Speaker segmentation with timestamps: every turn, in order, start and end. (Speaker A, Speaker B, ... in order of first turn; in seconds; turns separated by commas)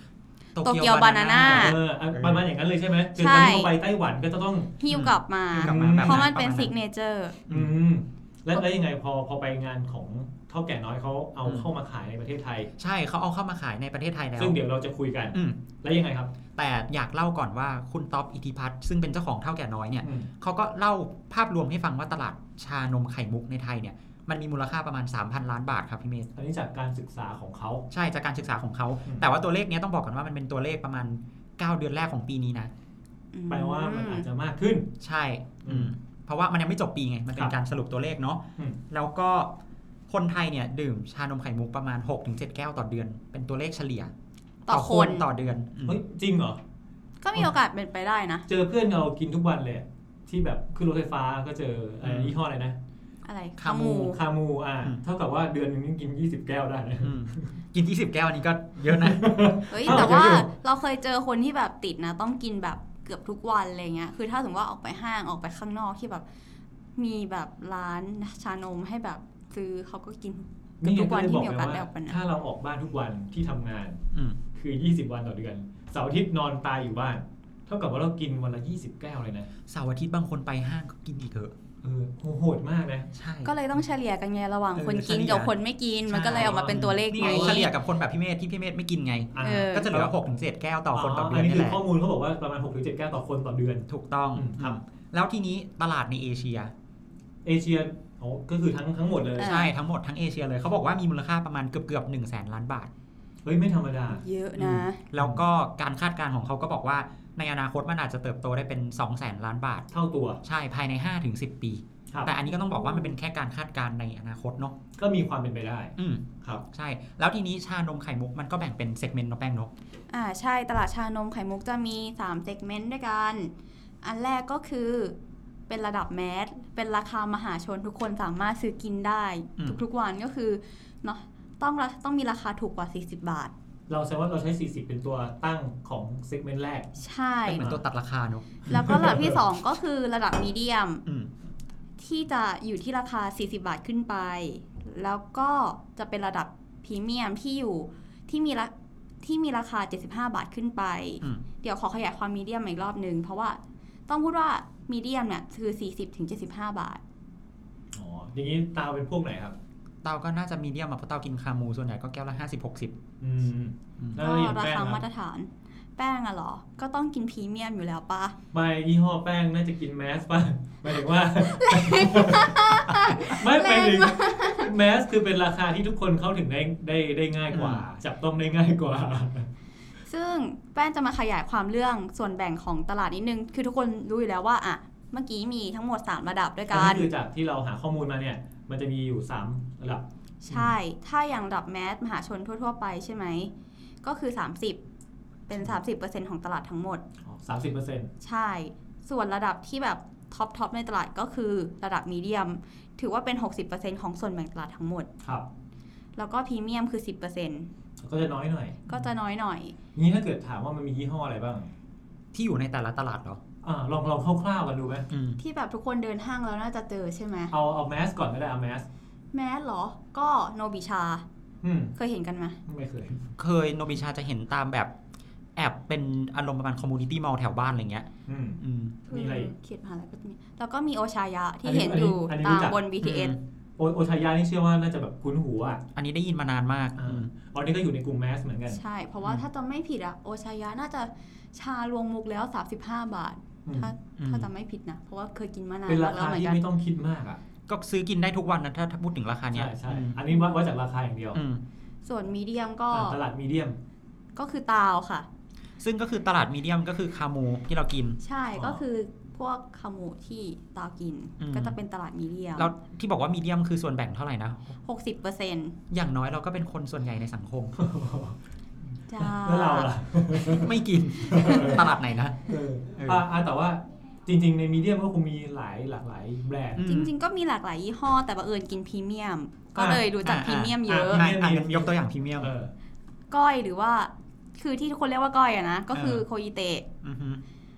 Speaker A: 0.5-2.4, Speaker B: 0.6-1.8, Speaker C: 1.4-4.8, Speaker B: 3.1-3.7, Speaker B: 4.8-7.4, Speaker A: 4.9-6.7, Speaker C: 5.5-6.3, Speaker C: 7.5-12.7, Speaker A: 12.8-14.6, Speaker C: 14.4-16.3, Speaker A: 15.3-15.6, Speaker A: 16.6-26.3, Speaker C: 20.0-20.3, Speaker C: 26.4-27.8, Speaker A: 27.9-32.7, Speaker B: 33.3-34.2, Speaker C: 33.5-34.9, Speaker A: 35.0-39.5, Speaker C: 35.6-35.9, Speaker A: 40.1-44.1, Speaker B: 44.6-45.2, Speaker A: 44.7-46.0, Speaker C: 45.9-46.6, Speaker B: 47.2-48.5, Speaker C: 48.5-52.8, Speaker A: 52.0-52.4, Speaker B: 53.2-54.2, Speaker A: 53.6-54.1, Speaker C: 53.9-57.5, Speaker A: 57.0-60.3, Speaker C: 58.9-60.5, Speaker B: 59.7-66.2, Speaker B: 67.0-72.2, Speaker C: 70.8-74.0, Speaker A: 74.1-74.4, Speaker C: 74.5-79.5, Speaker A: 79.7-81.5, Speaker C: 81.8-83.1, Speaker A: 83.1-83.5, Speaker B: 83.4-87.7, Speaker A: 84.7-85.5, Speaker A: 86.0-91.8, Speaker C: 86.2-87.7, Speaker C: 89.3-90.1, Speaker B: 89.4-89.9, Speaker C: 90.9-94.8, Speaker A: 93.9-96.7, Speaker C: 97.4-99.6, Speaker B: 99.4-99.7, Speaker A: 99.4-102.9, Speaker C: 103.4-104.2, Speaker B: 104.1-105.0, Speaker A: 104.6-109.8, Speaker C: 109.9-110.4, Speaker A: 110.4-114.8, Speaker B: 112.7-113.1, Speaker C: 115.0-116.6, Speaker A: 116.0-119.7, Speaker B: 120.1-125.2, Speaker B: 125.7-133.5, Speaker C: 133.9-136.9, Speaker B: 137.0-137.8, Speaker A: 137.5-138.4, Speaker B: 138.7-141.0, Speaker C: 138.7-139.4, Speaker A: 141.1-141.3, Speaker B: 142.0-148.7, Speaker B: 149.2-157.0, Speaker C: 157.9-159.5, Speaker A: 160.0-163.0, Speaker C: 163.2-165.0, Speaker B: 164.2-168.3, Speaker C: 168.5-179.5, Speaker B: 171.4-174.7, Speaker A: 177.5-177.8, Speaker B: 180.1-187.1, Speaker C: 186.7-190.7, Speaker B: 190.4-193.5, Speaker B: 194.0-194.8, Speaker B: 195.5-197.0, Speaker C: 197.2-198.1, Speaker B: 198.2-205.1, Speaker B: 206.2-207.7, Speaker C: 208.0-208.9, Speaker B: 208.9-209.8, Speaker C: 209.9-211.7, Speaker A: 212.3-213.4, Speaker C: 213.6-215.1, Speaker A: 215.1-215.4, Speaker B: 215.4-217.5, Speaker C: 217.5-218.9, Speaker B: 219.3-221.2, Speaker C: 221.6-221.9, Speaker B: 221.9-222.6, Speaker C: 222.7-223.2, Speaker A: 223.3-224.9, Speaker A: 225.6-228.1, Speaker C: 228.3-229.5, Speaker A: 228.6-229.0, Speaker B: 229.1-233.3, Speaker C: 231.6-232.8, Speaker A: 233.0-233.4, Speaker C: 233.8-235.8, Speaker A: 235.9-237.3, Speaker C: 237.0-238.8, Speaker B: 238.7-246.6, Speaker C: 243.7-243.9, Speaker A: 244.2-244.5, Speaker C: 245.9-247.4, Speaker A: 247.7-250.2, Speaker C: 249.5-251.4, Speaker A: 251.3-251.6, Speaker B: 252.0-253.2, Speaker C: 252.9-253.8, Speaker B: 254.3-255.3, Speaker A: 255.8-258.2, Speaker B: 258.2-262.7, Speaker A: 261.4-261.8, Speaker A: 262.6-264.8, Speaker B: 264.8-265.8, Speaker A: 265.9-267.8, Speaker C: 267.8-268.4, Speaker B: 269.1-269.9, Speaker C: 269.2-271.9, Speaker A: 270.5-273.2, Speaker B: 271.3-271.8, Speaker C: 272.5-276.9, Speaker A: 276.8-277.1, Speaker B: 276.8-281.2, Speaker C: 279.7-280.0, Speaker A: 280.2-282.5, Speaker C: 280.9-282.7, Speaker B: 283.3-286.9, Speaker A: 285.9-286.2, Speaker A: 287.0-287.4